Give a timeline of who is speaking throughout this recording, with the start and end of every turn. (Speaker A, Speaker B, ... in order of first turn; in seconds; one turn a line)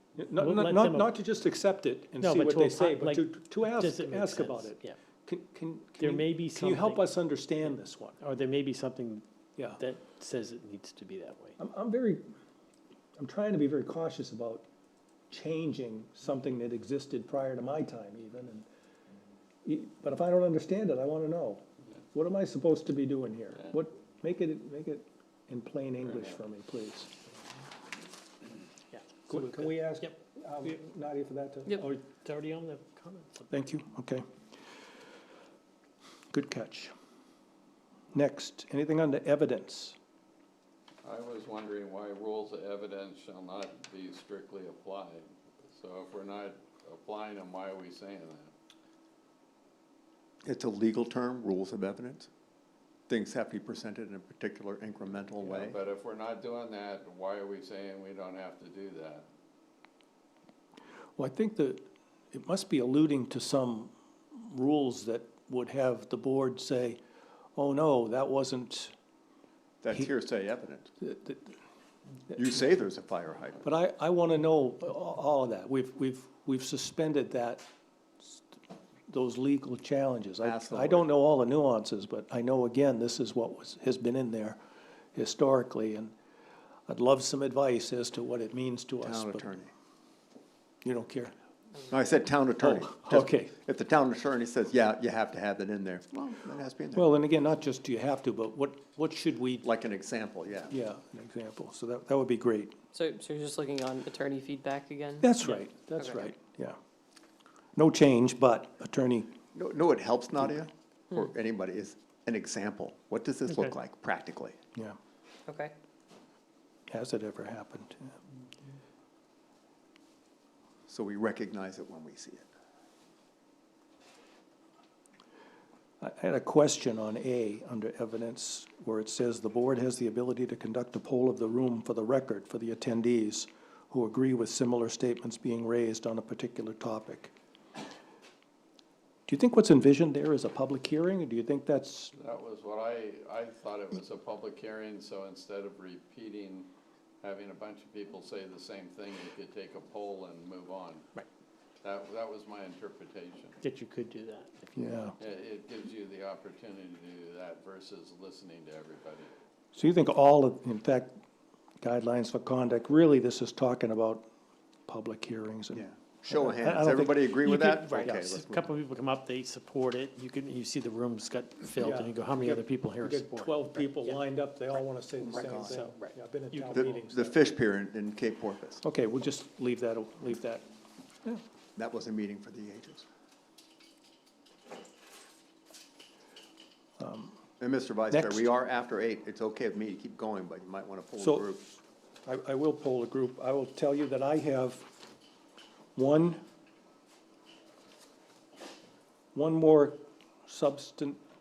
Speaker A: 0.2-8.2
Speaker B: 0.3-1.2
Speaker B: 2.2-5.0
Speaker B: 6.0-7.0
Speaker B: 7.7-11.6
Speaker A: 11.6-12.2
Speaker A: 13.2-14.7
Speaker A: 15.3-18.7
Speaker A: 19.6-27.1
Speaker C: 26.0-26.4
Speaker B: 28.9-30.8
Speaker A: 29.3-31.8
Speaker B: 31.7-33.5
Speaker A: 33.5-34.2
Speaker A: 36.3-36.9
Speaker A: 38.1-40.0
Speaker C: 41.0-48.5
Speaker D: 50.4-52.3
Speaker D: 53.1-55.8
Speaker C: 55.4-59.3
Speaker A: 61.2-67.0
Speaker A: 67.6-68.9
Speaker D: 69.8-70.9
Speaker A: 71.0-71.6
Speaker D: 72.3-73.6
Speaker A: 73.6-77.7
Speaker A: 79.1-84.6
Speaker D: 80.4-81.1
Speaker A: 85.2-86.1
Speaker A: 86.9-89.5
Speaker D: 89.0-89.7
Speaker A: 90.8-91.3
Speaker D: 91.9-97.1
Speaker A: 92.6-93.5
Speaker A: 96.9-99.7
Speaker D: 99.6-100.8
Speaker A: 100.7-102.8
Speaker E: 102.9-106.3
Speaker A: 105.2-106.8
Speaker A: 107.8-109.3
Speaker D: 109.5-114.6
Speaker E: 115.5-115.7
Speaker A: 116.9-118.2
Speaker D: 120.9-122.5
Speaker A: 126.0-137.3
Speaker A: 139.3-142.1
Speaker C: 142.2-146.7
Speaker C: 147.2-151.1
Speaker C: 151.8-153.6
Speaker B: 153.6-155.1
Speaker A: 154.8-155.2
Speaker C: 155.2-159.3
Speaker A: 159.7-161.2
Speaker A: 161.8-164.3
Speaker A: 164.9-167.5
Speaker D: 165.8-168.7
Speaker B: 167.5-174.2
Speaker A: 171.8-177.4
Speaker D: 175.2-175.8
Speaker B: 175.5-177.0
Speaker D: 176.7-178.8
Speaker A: 178.8-180.7
Speaker D: 181.8-183.1
Speaker A: 187.0-187.4
Speaker D: 187.6-191.6
Speaker A: 188.1-188.5
Speaker A: 191.2-191.7
Speaker A: 192.3-194.9
Speaker A: 196.0-196.4
Speaker A: 199.3-201.2